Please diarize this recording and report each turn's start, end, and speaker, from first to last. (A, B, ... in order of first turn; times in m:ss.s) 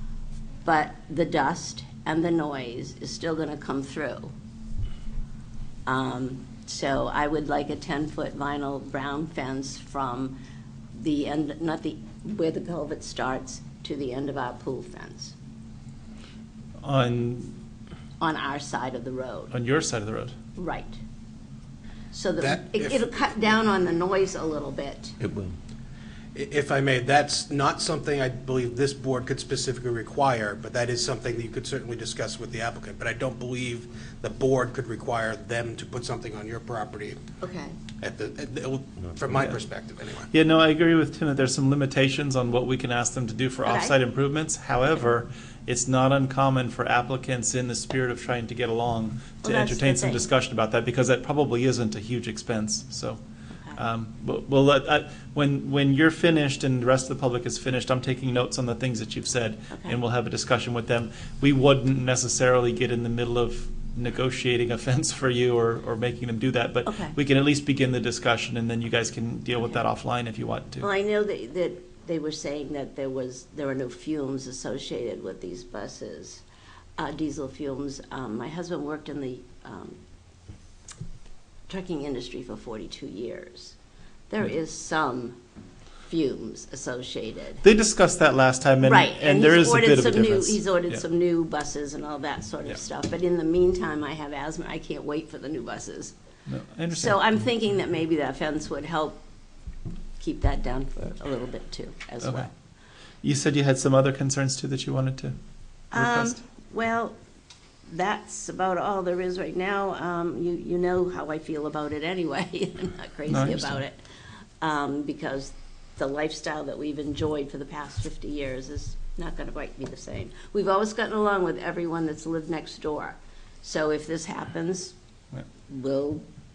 0:00.6-0:04.3 A
0:05.8-0:10.4 A
0:10.9-0:15.3 A
0:16.8-0:17.6 B
0:18.2-0:19.5 A
0:19.5-0:20.3 B
0:20.6-0:21.0 A
0:22.1-0:25.2 A
0:22.4-0:23.1 C
0:26.3-0:37.2 C
0:37.4-0:37.8 A
0:38.0-0:40.3 C
0:40.3-0:53.2 B
0:43.6-0:44.0 A
0:49.4-0:50.2 A
0:53.8-1:10.9 B
0:59.7-1:00.0 A
1:06.9-1:07.1 A
1:10.8-1:16.4 A
1:17.0-1:20.0 A
1:21.7-1:23.8 A
1:24.3-1:25.4 A
1:26.1-1:27.6 A
1:27.6-1:31.0 B
1:28.8-1:36.1 A
1:36.5-1:37.2 B
1:36.9-1:39.2 A
1:40.2-1:42.5 A
1:42.2-1:42.5 B
1:43.2-1:45.4 B
1:45.9-1:47.2 A
1:45.9-1:46.4 B
1:47.8-1:54.0 A
1:53.3-1:53.8 B
1:54.6-2:04.9 A
2:05.6-2:06.2 A